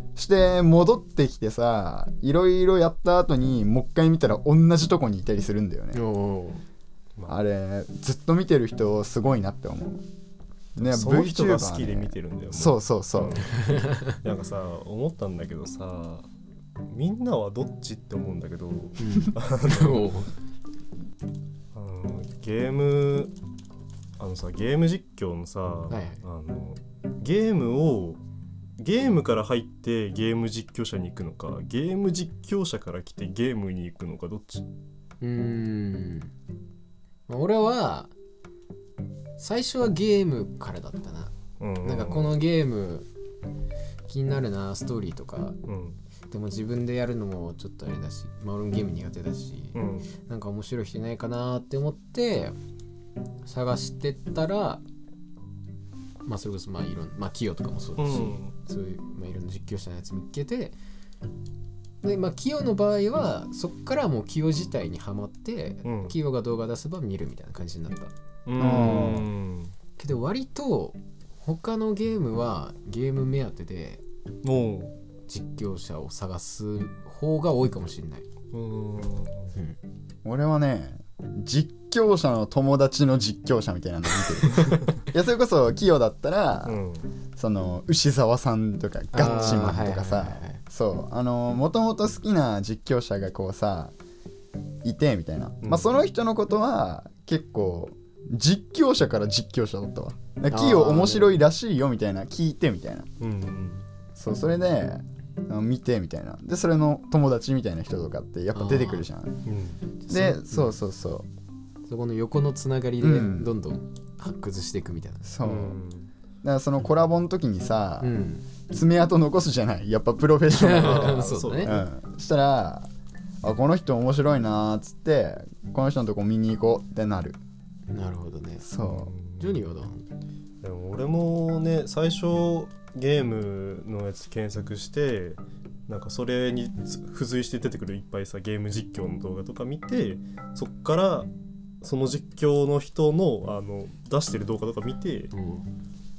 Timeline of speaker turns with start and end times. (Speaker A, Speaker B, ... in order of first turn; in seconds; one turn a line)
Speaker A: 0.2-6.0
Speaker B: 5.9-6.6
Speaker A: 7.3-10.0
Speaker A: 10.8-13.4
Speaker C: 10.8-16.3
Speaker B: 13.5-14.2
Speaker C: 16.9-20.1
Speaker B: 19.0-20.3
Speaker C: 21.7-23.3
Speaker C: 24.2-28.2
Speaker B: 25.9-26.2
Speaker C: 28.8-34.7
Speaker B: 35.2-36.3
Speaker B: 37.3-38.1
Speaker B: 39.4-41.3
Speaker C: 41.6-42.4
Speaker B: 41.8-43.1
Speaker B: 44.1-45.6
Speaker C: 45.7-46.0
Speaker B: 46.3-52.6
Speaker C: 49.8-50.1
Speaker B: 53.5-54.8
Speaker B: 56.2-60.8
Speaker C: 58.0-58.5
Speaker B: 62.0-68.1
Speaker C: 65.8-66.2
Speaker C: 68.5-69.7
Speaker A: 68.6-69.3
Speaker B: 70.0-74.0
Speaker C: 74.4-74.9
Speaker B: 75.3-78.3
Speaker C: 78.5-79.5
Speaker A: 80.2-86.8
Speaker C: 86.7-87.1
Speaker A: 87.4-93.9
Speaker B: 89.1-90.6
Speaker C: 89.2-89.7
Speaker A: 94.8-103.1
Speaker C: 95.6-95.9
Speaker B: 100.5-101.4
Speaker C: 103.2-103.8
Speaker A: 104.2-109.4
Speaker B: 108.5-109.1
Speaker C: 109.5-109.8
Speaker B: 110.0-110.7
Speaker A: 110.1-111.3
Speaker B: 111.9-115.3
Speaker A: 113.0-113.5
Speaker A: 115.2-115.8
Speaker C: 115.4-116.1
Speaker A: 116.4-118.1
Speaker B: 118.0-118.5
Speaker A: 118.7-122.9
Speaker B: 120.5-121.8
Speaker C: 120.7-121.8
Speaker A: 123.4-127.4
Speaker B: 127.9-128.7
Speaker A: 128.6-129.1
Speaker C: 128.8-129.6
Speaker B: 129.4-130.1
Speaker C: 130.6-141.3
Speaker C: 141.8-145.3
Speaker B: 145.3-145.7